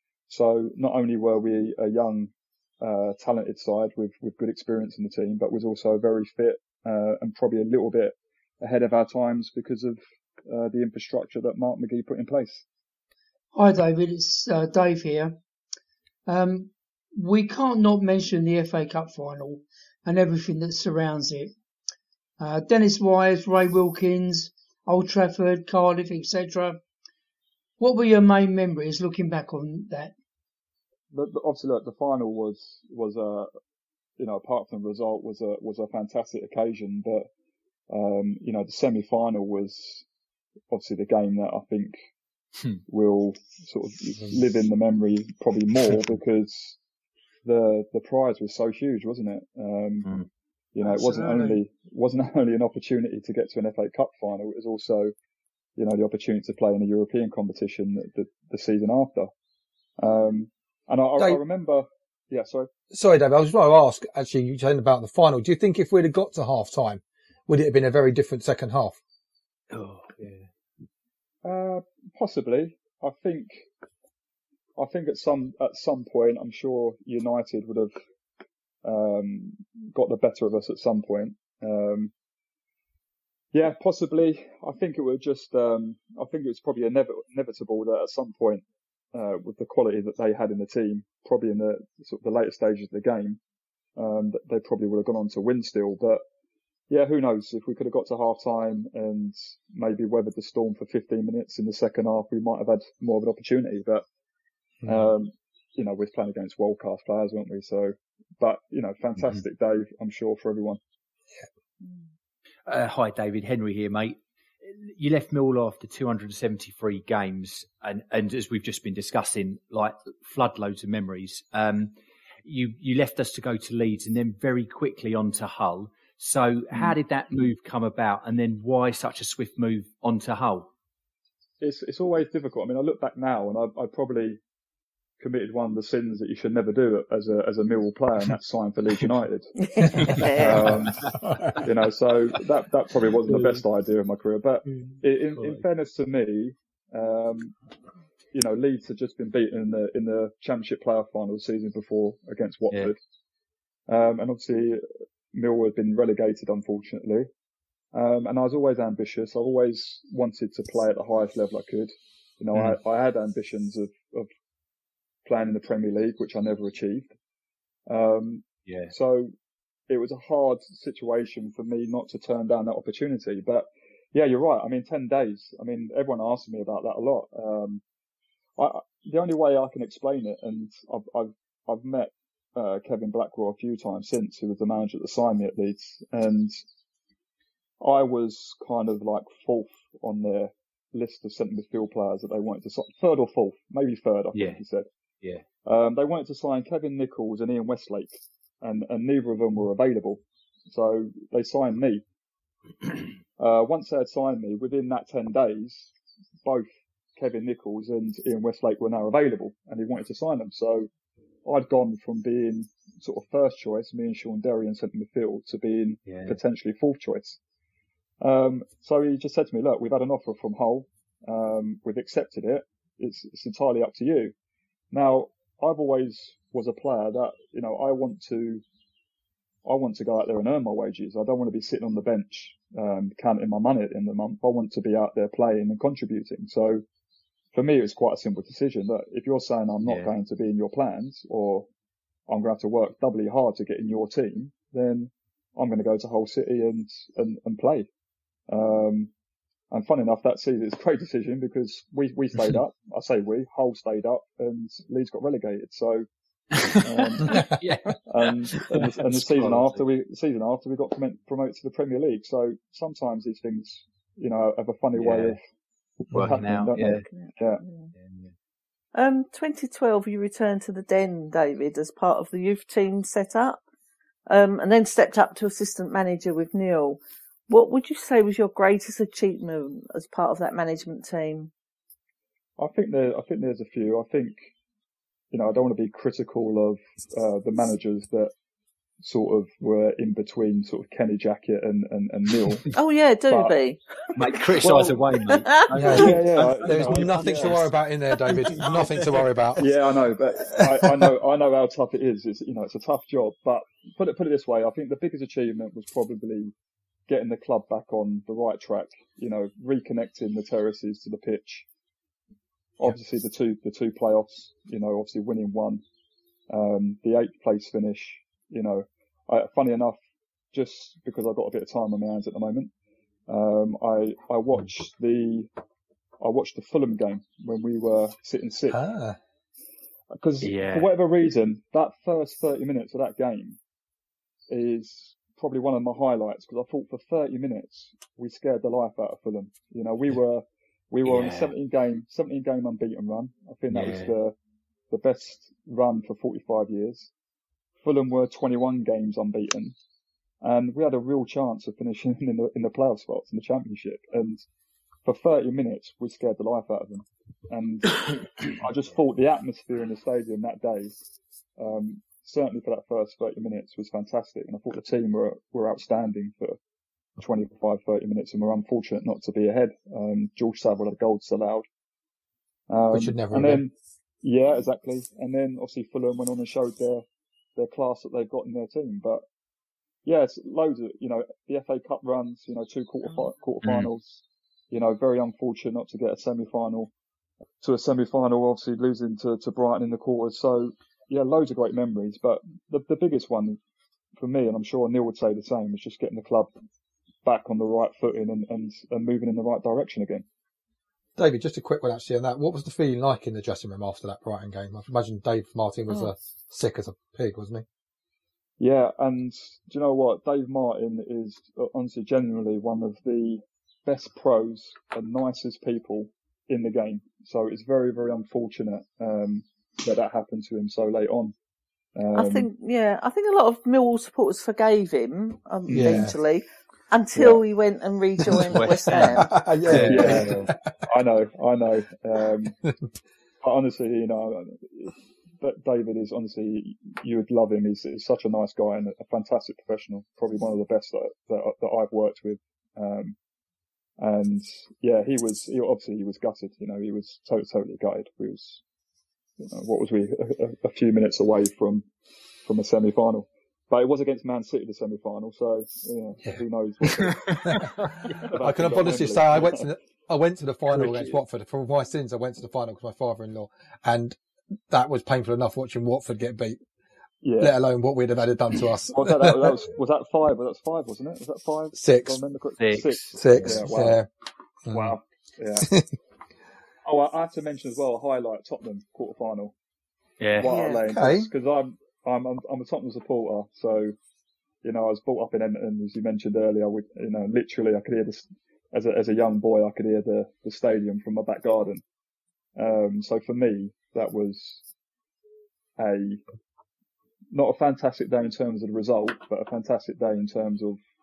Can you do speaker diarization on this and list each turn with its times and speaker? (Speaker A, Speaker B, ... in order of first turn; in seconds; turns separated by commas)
Speaker A: 0.3-12.6, Speaker B: 13.5-15.4, Speaker B: 16.3-21.5, Speaker B: 22.4-26.8, Speaker B: 27.8-30.1, Speaker A: 31.1-33.5, Speaker A: 34.2-37.2, Speaker A: 37.9-40.0, Speaker A: 40.7-42.0, Speaker A: 42.9-46.8, Speaker A: 47.5-50.1, Speaker A: 50.8-55.1, Speaker B: 50.8-51.6, Speaker A: 55.8-59.3, Speaker A: 60.0-62.7, Speaker C: 62.9-69.0, Speaker D: 69.7-70.5, Speaker A: 71.4-73.7, Speaker A: 74.8-78.0, Speaker A: 78.8-82.1, Speaker A: 83.5-93.4, Speaker A: 94.0-96.2, Speaker A: 96.9-104.0, Speaker C: 104.8-105.1, Speaker A: 104.9-110.8, Speaker D: 112.7-130.7, Speaker A: 131.6-134.4, Speaker A: 135.2-139.5, Speaker E: 139.6-140.8, Speaker D: 140.1-141.7, Speaker A: 140.4-141.0, Speaker A: 141.6-147.5, Speaker D: 143.3-143.6, Speaker D: 144.7-145.7, Speaker A: 148.3-153.0, Speaker A: 153.9-154.8, Speaker A: 155.3-157.3, Speaker A: 157.9-164.3, Speaker D: 162.5-162.8, Speaker A: 165.3-167.1, Speaker A: 167.9-169.3, Speaker D: 168.7-168.9, Speaker A: 169.9-177.8, Speaker A: 178.6-186.6, Speaker A: 187.8-194.9, Speaker D: 194.3-194.6, Speaker A: 195.7-202.0, Speaker A: 203.4-205.9, Speaker A: 206.4-210.9, Speaker A: 211.4-217.4, Speaker D: 216.1-216.4, Speaker A: 218.2-224.3, Speaker A: 224.9-228.6, Speaker A: 229.7-236.8, Speaker A: 237.5-241.7, Speaker D: 239.8-240.1, Speaker A: 242.3-247.9, Speaker A: 248.5-249.1, Speaker A: 249.7-256.1, Speaker D: 256.6-259.8, Speaker A: 256.8-257.5, Speaker A: 258.1-265.4, Speaker D: 264.9-265.4, Speaker A: 266.1-267.6, Speaker D: 266.1-267.1, Speaker E: 267.1-267.9, Speaker D: 267.9-268.4, Speaker E: 268.9-273.6, Speaker E: 274.3-281.5, Speaker A: 282.6-284.4, Speaker A: 285.3-288.3, Speaker A: 289.0-292.7, Speaker E: 292.7-293.8, Speaker A: 293.3-293.6, Speaker D: 294.1-297.7, Speaker A: 294.6-295.0, Speaker C: 295.8-299.7, Speaker A: 295.9-297.6, Speaker A: 299.6-306.5, Speaker A: 307.1-311.7, Speaker A: 312.8-315.8, Speaker A: 316.5-320.0, Speaker A: 320.5-322.7, Speaker A: 323.3-325.5, Speaker A: 326.2-328.8, Speaker C: 328.7-329.2, Speaker A: 330.1-333.6, Speaker D: 330.4-330.9, Speaker A: 334.5-344.4, Speaker D: 341.0-341.5, Speaker D: 343.7-344.1, Speaker A: 344.9-347.1, Speaker A: 347.8-349.8, Speaker A: 350.4-354.5, Speaker A: 355.1-361.0, Speaker A: 361.6-366.6, Speaker A: 367.2-371.6, Speaker A: 372.7-377.0, Speaker C: 372.9-373.6, Speaker A: 377.6-379.2, Speaker A: 380.1-386.9, Speaker D: 383.6-383.9, Speaker A: 387.6-393.6, Speaker A: 394.2-396.5, Speaker A: 397.2-400.2, Speaker C: 401.2-407.6, Speaker A: 408.6-421.4, Speaker A: 422.0-422.5, Speaker E: 422.1-429.3, Speaker C: 425.7-426.1, Speaker A: 427.1-427.4, Speaker D: 428.4-430.5, Speaker C: 429.0-430.6, Speaker A: 429.9-432.6, Speaker A: 433.4-443.2, Speaker A: 444.0-448.6, Speaker A: 449.4-451.9, Speaker A: 452.4-457.6, Speaker C: 457.5-457.7, Speaker A: 458.3-459.7, Speaker C: 458.3-464.2, Speaker C: 464.7-466.6, Speaker A: 467.2-467.6, Speaker C: 467.4-469.6, Speaker A: 468.9-474.0, Speaker C: 471.8-472.2, Speaker D: 472.6-473.6, Speaker C: 473.2-474.1, Speaker C: 474.7-474.9, Speaker A: 474.7-475.7, Speaker A: 476.8-479.5, Speaker D: 480.2-480.5, Speaker A: 480.4-483.9, Speaker E: 480.5-480.8, Speaker C: 480.8-481.3, Speaker A: 484.6-491.8, Speaker A: 492.6-494.6, Speaker A: 495.8-496.2, Speaker A: 497.3-500.8